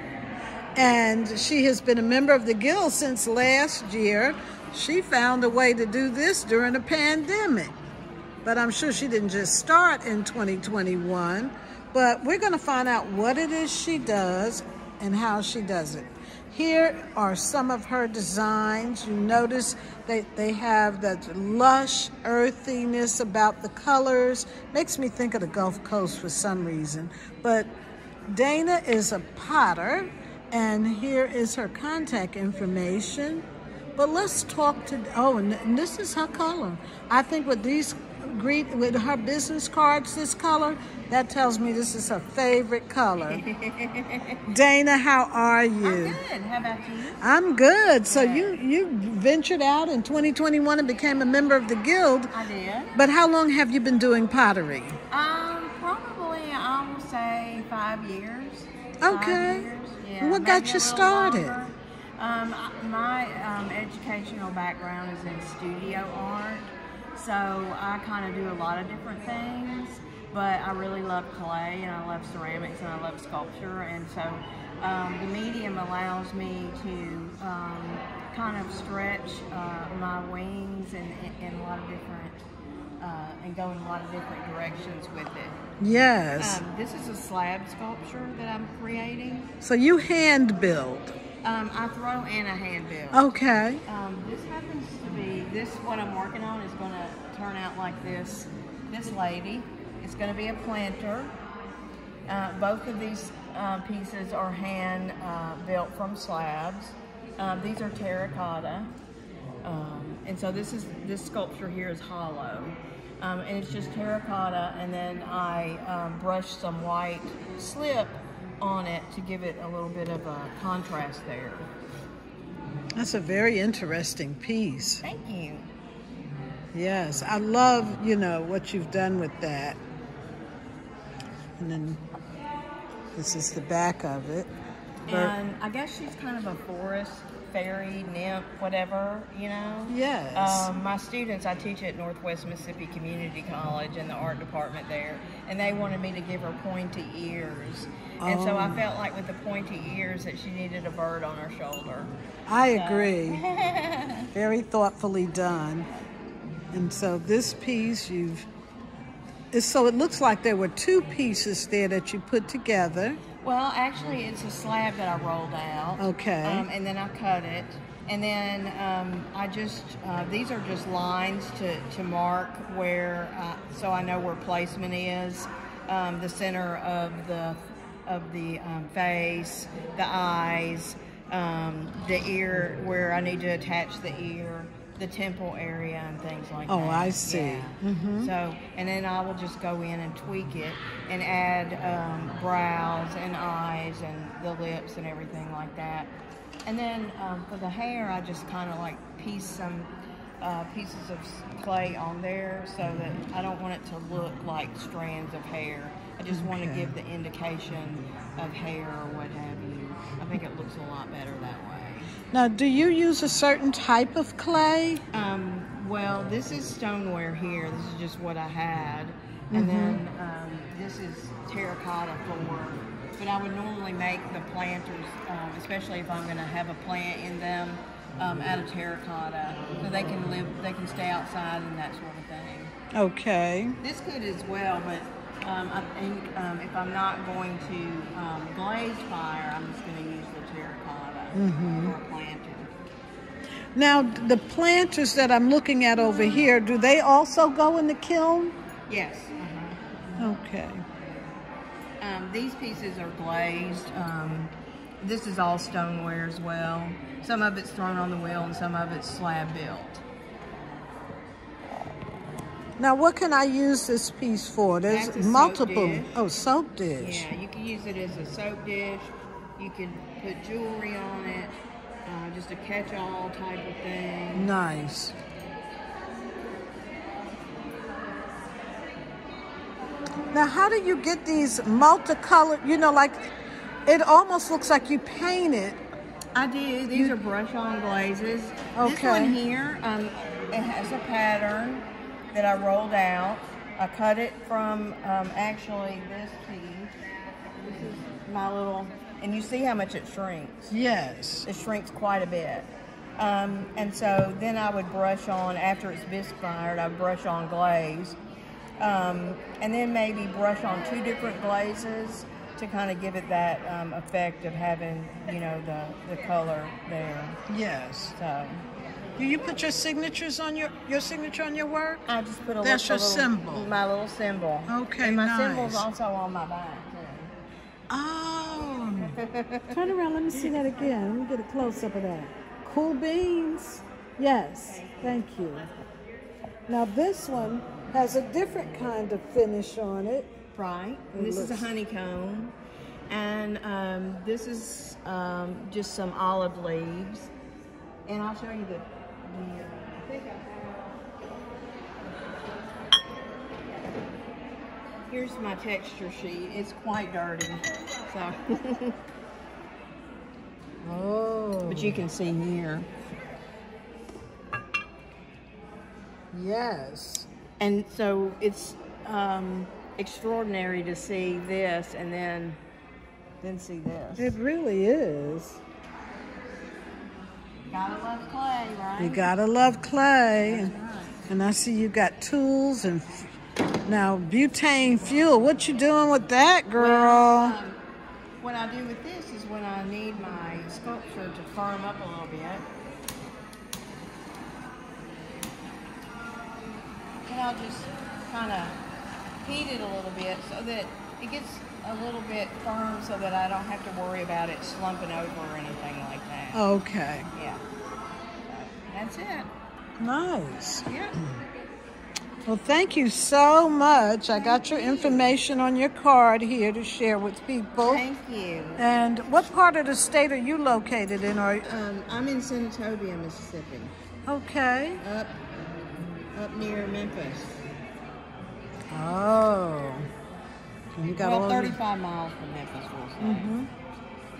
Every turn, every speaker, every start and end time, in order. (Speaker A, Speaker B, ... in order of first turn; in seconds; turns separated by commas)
Speaker A: 0.8-7.7, Speaker A: 8.4-27.7, Speaker A: 28.3-33.4, Speaker A: 34.0-43.4, Speaker B: 43.2-44.4, Speaker A: 44.5-46.2, Speaker B: 45.8-47.2, Speaker A: 47.2-52.3, Speaker B: 48.0-48.5, Speaker B: 52.3-52.9, Speaker A: 52.9-55.0, Speaker B: 55.1-82.4, Speaker A: 59.0-59.7, Speaker A: 60.2-61.6, Speaker B: 83.0-85.6, Speaker A: 85.8-86.6, Speaker B: 86.4-89.5, Speaker A: 89.6-91.1, Speaker B: 91.4-93.3, Speaker A: 93.1-93.8, Speaker B: 93.9-101.3, Speaker B: 102.3-108.9, Speaker B: 109.6-121.7, Speaker A: 123.0-125.0, Speaker B: 125.0-125.7, Speaker A: 126.7-129.8, Speaker A: 131.6-132.0, Speaker A: 133.1-134.5, Speaker B: 135.1-152.1, Speaker A: 135.1-135.3, Speaker A: 139.9-140.7, Speaker A: 148.2-148.8, Speaker A: 152.5-153.4, Speaker B: 152.7-154.3, Speaker A: 154.3-155.9, Speaker A: 156.7-158.5, Speaker A: 159.5-163.2, Speaker B: 163.4-196.1, Speaker A: 166.0-166.7, Speaker A: 186.7-188.3, Speaker B: 196.7-199.9, Speaker B: 200.4-212.1, Speaker A: 206.3-206.9, Speaker A: 212.3-215.0, Speaker B: 215.1-232.7, Speaker A: 219.5-220.0, Speaker A: 232.9-233.8, Speaker B: 233.8-242.7, Speaker A: 241.3-241.9, Speaker A: 243.8-248.5, Speaker B: 248.9-250.3, Speaker A: 250.2-250.8, Speaker B: 252.0-260.0, Speaker A: 262.8-267.3, Speaker B: 264.9-266.2, Speaker B: 267.0-271.5, Speaker B: 272.0-274.5, Speaker A: 274.3-275.1, Speaker A: 280.3-283.3, Speaker A: 283.9-285.8, Speaker B: 286.3-296.9, Speaker A: 288.8-289.4, Speaker B: 297.6-300.7, Speaker A: 300.7-301.5, Speaker B: 301.4-308.2, Speaker B: 308.8-317.4, Speaker A: 317.5-318.1, Speaker B: 318.1-318.6, Speaker A: 319.2-322.0, Speaker B: 322.1-327.3, Speaker A: 322.6-323.7, Speaker A: 324.7-325.9, Speaker A: 327.9-329.2, Speaker B: 329.1-329.8, Speaker A: 329.7-335.7, Speaker A: 336.7-340.3, Speaker B: 340.5-342.5, Speaker A: 341.1-341.7, Speaker B: 343.1-347.3, Speaker B: 348.1-350.9, Speaker B: 355.1-359.0, Speaker A: 360.8-362.1, Speaker B: 361.6-362.9, Speaker A: 366.3-367.3, Speaker B: 367.6-372.6, Speaker B: 373.4-374.4, Speaker A: 374.2-375.6, Speaker B: 377.7-379.3, Speaker A: 379.0-380.7, Speaker B: 380.4-381.3, Speaker A: 381.3-383.3, Speaker A: 383.9-387.6, Speaker B: 386.8-387.8, Speaker B: 388.4-392.6, Speaker B: 397.2-398.8, Speaker B: 399.4-406.7, Speaker A: 406.5-407.3, Speaker B: 407.3-407.6, Speaker B: 408.5-409.5, Speaker A: 410.0-410.9, Speaker B: 410.9-411.1, Speaker A: 412.5-418.0, Speaker B: 414.3-415.3, Speaker B: 417.8-418.8, Speaker A: 418.8-421.6, Speaker B: 421.6-423.9, Speaker A: 424.2-425.0, Speaker B: 425.0-425.4, Speaker B: 426.3-427.5, Speaker A: 428.9-430.1, Speaker A: 430.9-431.8, Speaker B: 431.2-433.5, Speaker A: 433.2-433.7